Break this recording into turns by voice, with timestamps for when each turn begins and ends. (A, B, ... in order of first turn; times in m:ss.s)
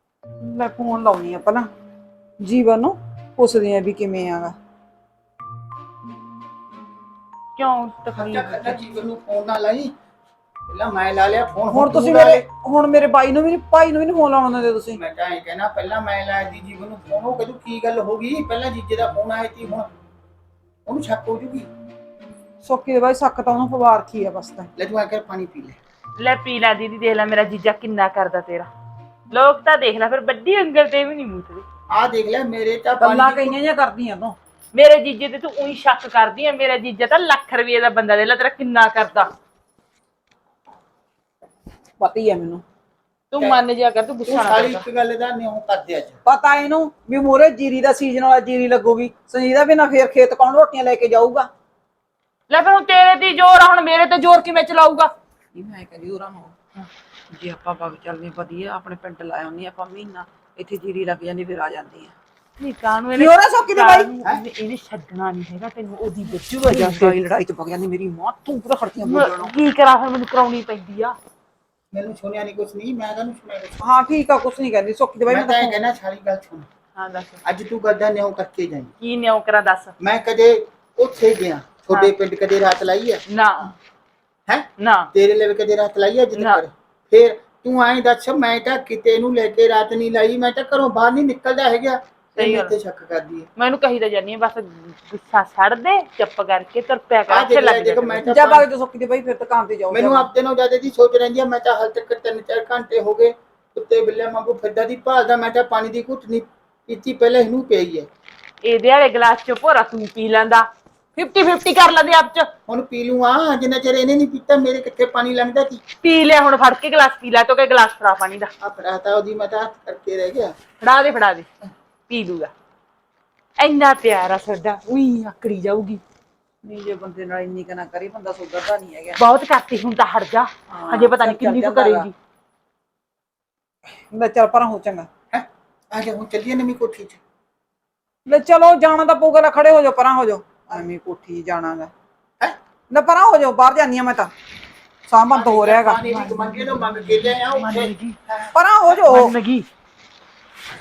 0:00.4-0:01.7 A
0:02.4-0:04.5 A
0:07.6-0:08.8 B
0:08.1-0:09.9 C
0:10.7-0:12.4 C
0:11.7-0:15.0 A
0:14.9-0:19.9 C
0:20.8-0:21.7 C
0:22.6-0:24.7 A
0:24.8-0:25.8 C
0:26.2-0:28.7 B
0:29.3-0:31.6 B
0:31.9-0:33.6 C
0:33.0-0:34.4 A
0:34.7-0:39.3 B
0:42.0-0:42.6 A
0:43.3-0:44.8 B
0:44.2-0:46.2 C
0:46.2-0:51.5 A
0:52.5-0:55.1 B
0:55.5-0:56.6 A
0:57.3-1:02.1 A
1:02.6-1:07.2 B
1:03.1-1:04.1 A
1:06.6-1:09.5 A
1:09.0-1:11.1 B
1:11.9-1:13.8 C
1:13.8-1:15.8 A
1:15.3-1:16.7 C
1:17.0-1:17.4 B
1:17.4-1:18.9 C
1:19.0-1:19.9 B
1:20.0-1:23.2 C
1:23.3-1:23.7 B
1:24.5-1:33.5 C
1:24.8-1:25.1 B
1:26.3-1:26.6 B
1:32.4-1:32.7 B
1:33.6-1:38.3 B
1:37.3-1:38.6 C
1:38.2-1:40.3 A
1:39.9-1:48.1 C
1:48.6-1:52.5 B
1:52.7-1:55.8 C
1:56.0-1:58.5 B
1:58.6-2:00.6 C
2:00.8-2:01.5 B
2:02.1-2:02.5 B
2:03.6-2:06.0 B
2:06.6-2:09.2 A
2:09.2-2:12.1 B
2:10.7-2:12.1 A
2:14.1-2:15.1 A
2:15.3-2:17.2 C
2:18.3-2:21.9 A
2:22.9-2:24.3 A
2:25.1-2:26.0 A
2:25.3-2:28.5 C
2:26.0-2:28.2 B
2:28.5-2:29.3 A
2:29.0-2:29.7 B